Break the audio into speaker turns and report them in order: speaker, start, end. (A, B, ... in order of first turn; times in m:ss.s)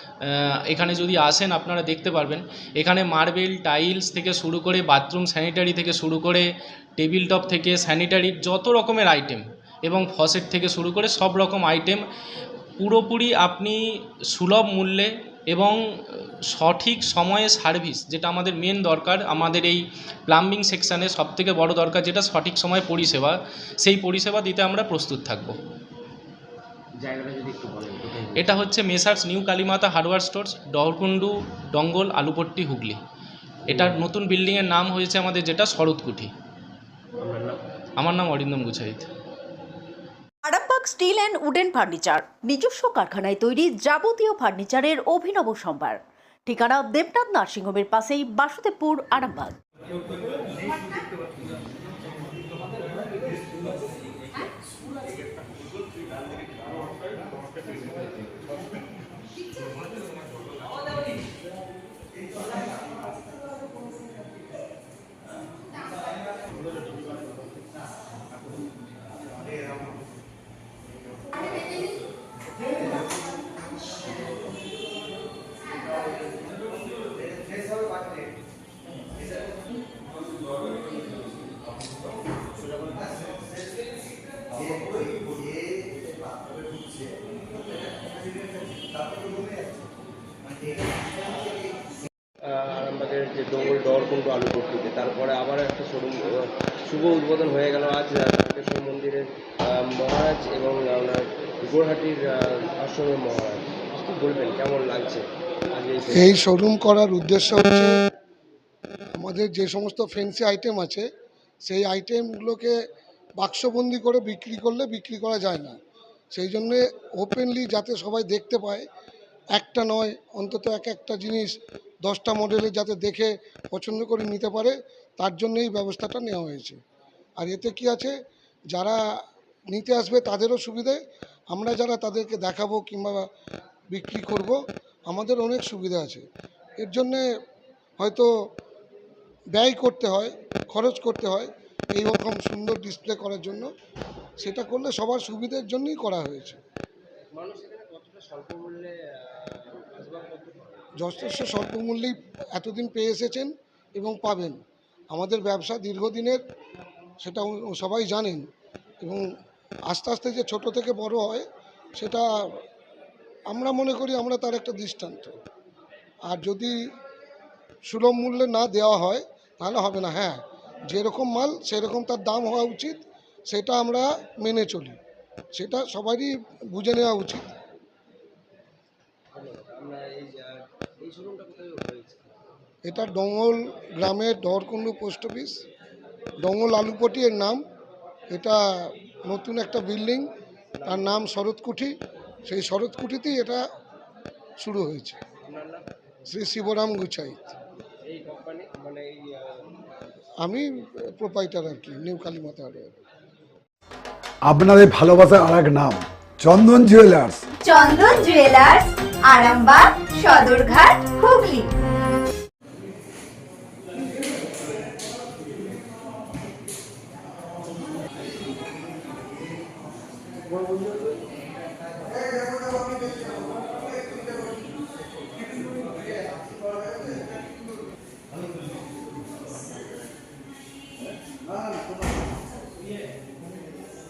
0:00.2-0:12.0 A
0:12.8-0:25.6 A
0:27.0-0:28.5 B
0:28.4-0:33.0 A
0:33.7-0:36.3 A
0:37.2-0:37.6 B
0:38.0-0:39.1 A
0:40.4-0:49.6 C
1:32.7-1:36.2 B
1:36.9-1:39.2 B
1:40.0-1:42.2 B
1:42.9-1:45.2 B
1:45.8-1:46.3 B
1:46.1-1:48.0 D
1:49.2-1:51.1 D
1:51.6-1:52.8 D
1:53.4-1:55.8 D
1:56.3-1:58.9 D
1:59.6-2:06.8 D
2:07.4-2:08.1 D
2:08.7-2:09.0 D
2:09.7-2:11.0 D
2:11.5-2:13.2 D
2:13.9-2:16.2 D
2:16.8-2:17.2 D
2:18.0-2:18.3 D
2:19.5-2:23.7 D
2:24.4-2:26.6 D
2:27.4-2:28.9 B
2:29.9-2:30.8 B
2:31.0-2:34.6 D
2:35.1-2:36.4 D
2:37.2-2:38.4 D
2:39.9-2:41.5 D
2:42.0-2:42.2 D
2:43.5-2:45.3 D
2:46.3-2:46.8 D
2:47.9-2:55.0 D
2:55.5-2:57.6 D
2:59.4-3:00.1 B
3:01.1-3:02.2 B
3:02.8-3:05.6 D
3:06.4-3:07.6 D
3:08.3-3:10.3 D
3:10.8-3:11.9 D
3:12.5-3:13.6 D
3:14.6-3:15.2 D
3:16.3-3:17.5 D
3:18.2-3:18.7 B
3:20.4-3:23.0 D
3:24.5-3:27.4 E
3:27.7-3:31.6 F